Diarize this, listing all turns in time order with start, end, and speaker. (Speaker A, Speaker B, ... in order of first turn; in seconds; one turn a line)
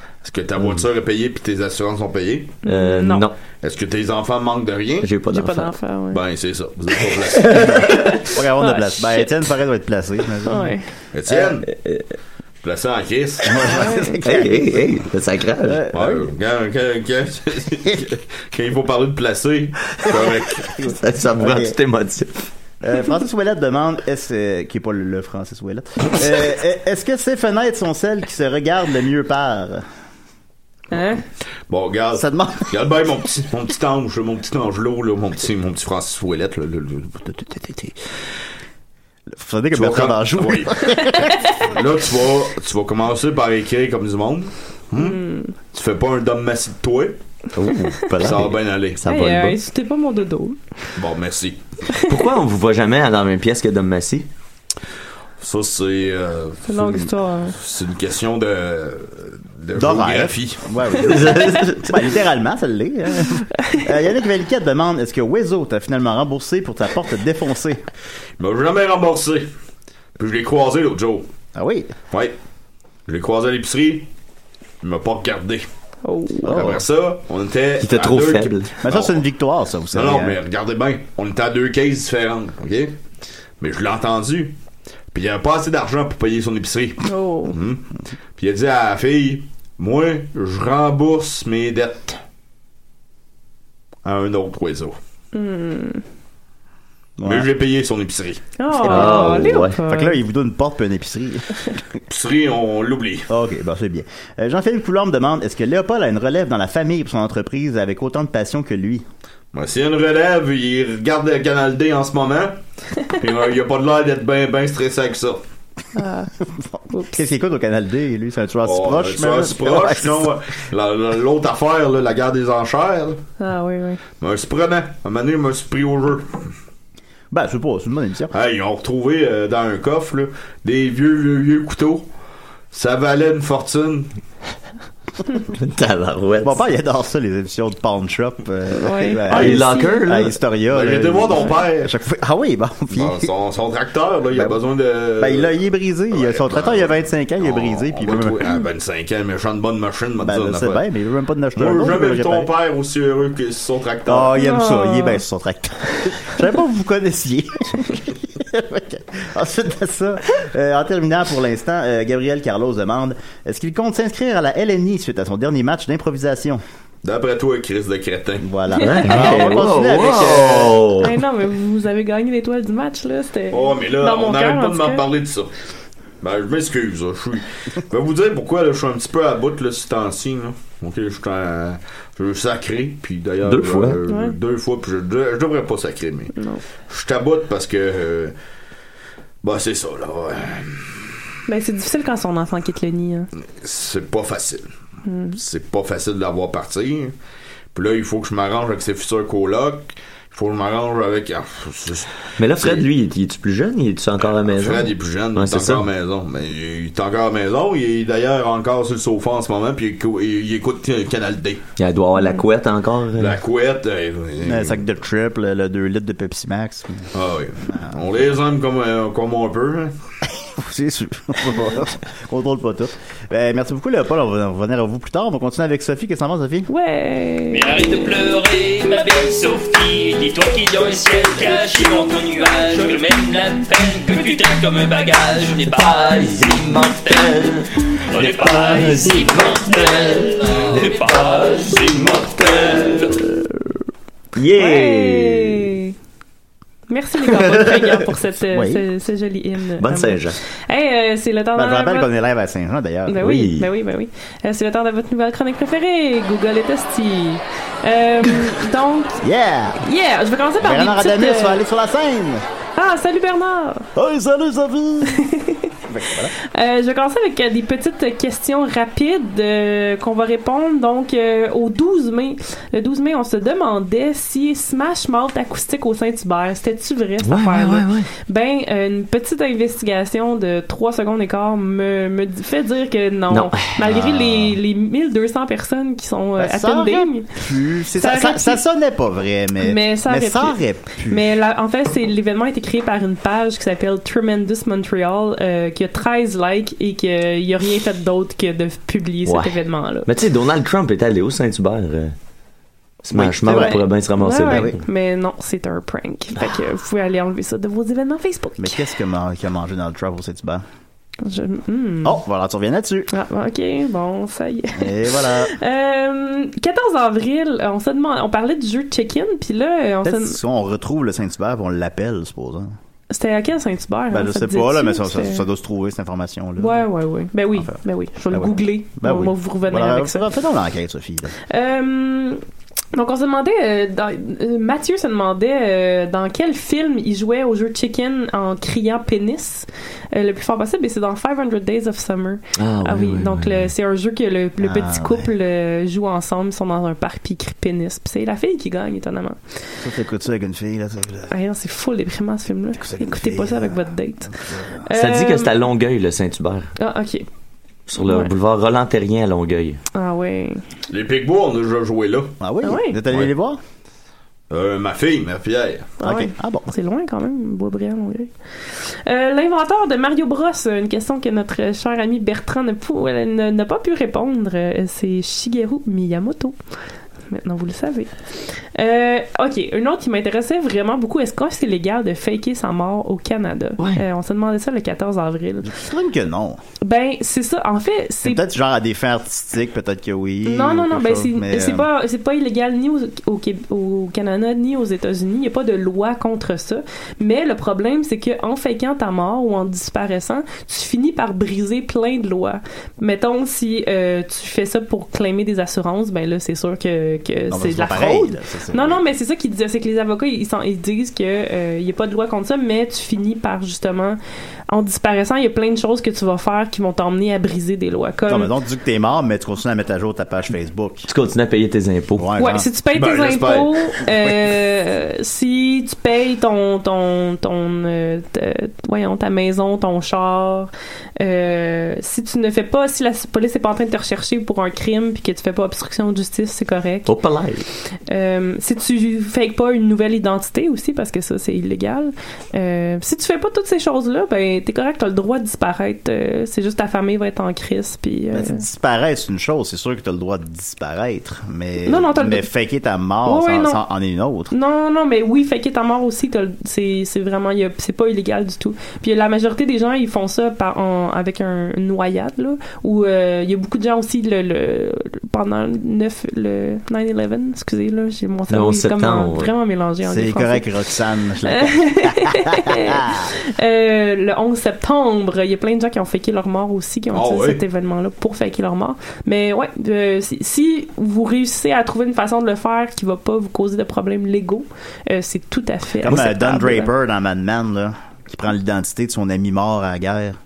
Speaker A: 0.2-2.5
Speaker B: 2.6-3.2
Speaker C: 2.6-3.4
Speaker A: 3.6-5.1
Speaker C: 5.0-5.7
Speaker B: 5.3-6.2
Speaker A: 6.1-7.9
Speaker C: 7.4-8.2
Speaker B: 7.9-9.3
Speaker D: 8.2-10.7
Speaker B: 10.4-10.9
Speaker A: 11.1-11.7
Speaker C: 11.7-12.1
Speaker A: 12.6-13.6
Speaker D: 13.4-15.0
Speaker B: 13.6-14.2
Speaker C: 14.2-15.8
Speaker D: 15.6-16.3
Speaker A: 15.9-20.7
Speaker D: 20.1-21.8
Speaker C: 20.8-22.5
Speaker D: 22.8-29.8
Speaker B: 30.9-31.2
Speaker A: 31.7-37.9
Speaker D: 32.1-32.9
Speaker D: 39.3-41.5
Speaker A: 39.7-40.9
Speaker A: 41.6-45.2
Speaker B: 45.0-45.5
Speaker A: 45.7-47.2
Speaker C: 47.5-49.6
Speaker A: 48.2-49.0
Speaker B: 49.0-50.6
Speaker A: 51.0-51.6
Speaker C: 52.0-54.3
Speaker A: 55.4-60.7
Speaker B: 56.7-57.5
Speaker D: 59.8-67.8
Speaker C: 61.0-62.1
Speaker A: 68.4-69.5
Speaker A: 70.2-71.2
Speaker D: 71.5-71.9
Speaker A: 72.1-72.3
Speaker A: 73.1-74.1
Speaker A: 74.8-75.7
Speaker B: 76.0-76.5
Speaker A: 76.4-79.2
Speaker D: 76.5-76.8
Speaker C: 77.8-78.7
Speaker D: 78.8-80.4
Speaker A: 79.9-82.9
Speaker A: 83.6-84.5
Speaker A: 85.1-87.8
Speaker B: 87.0-87.5
Speaker A: 88.4-92.2
Speaker A: 94.0-95.0
Speaker B: 95.3-96.0
Speaker D: 97.2-97.5
Speaker A: 97.2-98.4
Speaker B: 98.6-100.2
Speaker C: 98.8-99.8
Speaker D: 98.9-101.8
Speaker A: 102.1-103.3
Speaker D: 103.3-109.0
Speaker A: 109.5-112.5
Speaker A: 113.1-115.4
Speaker B: 115.9-116.3
Speaker D: 116.6-120.3
Speaker A: 118.6-123.2
Speaker B: 123.4-124.0
Speaker A: 124.2-126.5
Speaker D: 127.3-128.3
Speaker A: 128.3-132.1
Speaker A: 132.7-134.1
Speaker C: 135.5-136.6
Speaker D: 136.4-143.3
Speaker B: 138.7-140.0
Speaker C: 139.3-140.4
Speaker A: 140.7-141.9
Speaker A: 142.9-145.6
Speaker D: 144.3-144.6
Speaker D: 145.2-148.4
Speaker A: 146.1-150.8
Speaker D: 150.2-152.5
Speaker A: 151.6-154.4
Speaker D: 154.1-166.6
Speaker B: 154.4-155.2
Speaker A: 167.0-168.4
Speaker D: 168.4-170.8
Speaker C: 168.8-171.2
Speaker A: 169.1-170.6
Speaker B: 171.0-175.0
Speaker A: 173.5-175.5
Speaker A: 176.2-186.3
Speaker C: 183.4-184.0
Speaker B: 184.1-184.3
Speaker B: 186.3-186.6
Speaker A: 186.9-188.3
Speaker A: 189.4-191.0
Speaker B: 191.5-193.3
Speaker A: 193.6-194.7
Speaker B: 195.1-195.4
Speaker A: 195.3-197.1
Speaker A: 197.7-202.9
Speaker C: 202.4-205.8
Speaker A: 204.3-211.6
Speaker C: 211.8-213.4
Speaker A: 213.2-214.8
Speaker D: 214.4-217.1
Speaker A: 217.1-219.9
Speaker D: 217.7-218.0
Speaker D: 220.4-226.7
Speaker B: 226.7-227.7
Speaker E: 227.5-243.2
Speaker C: 238.1-239.6
Speaker C: 244.3-245.7
Speaker B: 244.6-245.9
Speaker B: 246.9-252.1
Speaker C: 247.3-247.9
Speaker D: 248.5-248.8
Speaker C: 249.8-250.4
Speaker D: 251.6-253.2
Speaker B: 253.1-259.2
Speaker C: 253.2-253.7
Speaker D: 259.2-259.8
Speaker B: 259.8-261.6
Speaker D: 260.6-262.4
Speaker B: 262.8-263.9
Speaker D: 263.9-265.2
Speaker B: 265.1-265.7
Speaker D: 265.9-266.3
Speaker B: 266.4-287.3
Speaker C: 277.2-278.1
Speaker C: 283.3-284.5
Speaker D: 286.4-291.2
Speaker B: 288.0-288.6
Speaker B: 289.6-300.1
Speaker C: 299.2-302.1
Speaker C: 303.0-304.8
Speaker D: 303.1-303.8
Speaker B: 303.5-308.8
Speaker D: 304.4-304.8
Speaker D: 308.6-310.6
Speaker B: 311.2-312.2
Speaker D: 312.0-313.1
Speaker B: 313.1-320.4
Speaker D: 314.8-315.5
Speaker D: 320.0-322.7
Speaker B: 323.1-325.4
Speaker D: 324.1-326.9
Speaker B: 326.6-330.3
Speaker D: 328.3-331.3
Speaker B: 331.5-332.4
Speaker B: 332.9-349.4
Speaker C: 342.6-343.7
Speaker D: 344.6-345.3
Speaker D: 349.8-351.3
Speaker B: 351.3-354.3
Speaker D: 352.8-354.8
Speaker B: 354.8-355.6
Speaker C: 354.9-356.7
Speaker B: 356.8-357.2
Speaker C: 357.9-359.8
Speaker B: 358.0-358.3
Speaker B: 359.9-360.6
Speaker A: 360.9-362.4
Speaker D: 362.4-363.6
Speaker B: 362.6-363.0
Speaker A: 364.5-365.9
Speaker B: 366.0-376.6
Speaker D: 366.0-366.7
Speaker B: 377.3-385.7
Speaker C: 383.8-384.0
Speaker D: 385.6-386.6
Speaker B: 386.8-388.4
Speaker D: 388.2-391.9
Speaker B: 390.4-414.2
Speaker D: 407.5-409.0
Speaker B: 414.7-418.5
Speaker D: 418.3-421.1
Speaker C: 421.1-422.3
Speaker D: 422.2-422.7
Speaker B: 422.4-437.1
Speaker A: 422.9-423.7
Speaker C: 437.1-437.6
Speaker B: 438.1-448.6
Speaker D: 448.3-454.5
Speaker B: 451.8-452.5
Speaker B: 453.2-453.8
Speaker B: 454.5-470.6
Speaker C: 468.5-469.5
Speaker D: 470.0-473.3
Speaker B: 471.5-486.9
Speaker A: 477.1-477.6
Speaker D: 486.0-490.4